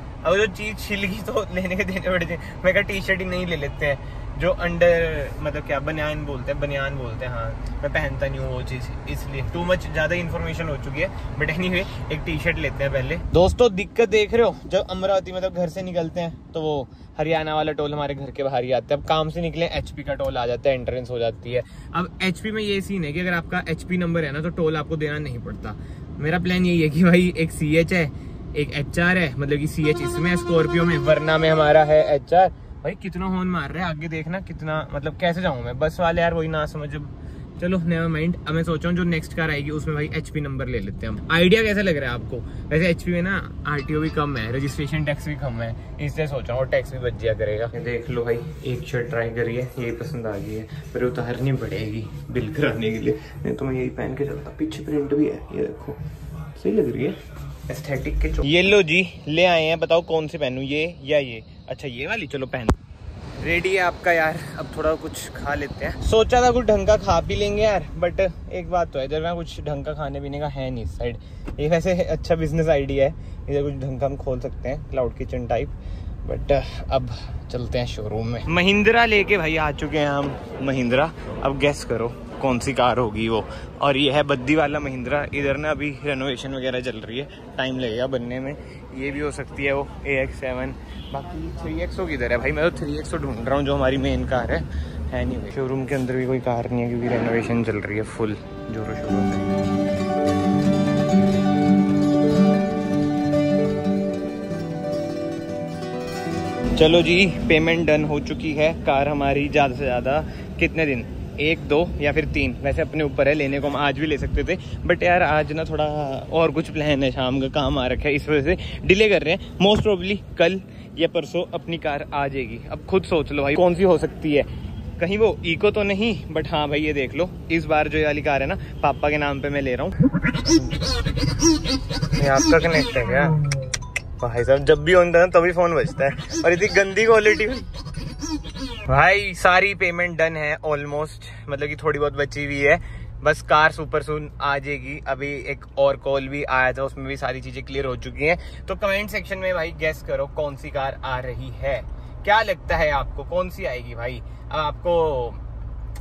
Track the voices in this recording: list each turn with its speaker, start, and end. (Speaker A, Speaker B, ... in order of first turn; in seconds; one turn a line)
Speaker A: 0.2-56.0
Speaker A: 56.5-62.8
Speaker A: 63.4-99.6
Speaker A: 106.7-130.7
Speaker A: 132.1-133.5
Speaker A: 134.2-137.8
Speaker A: 138.9-155.4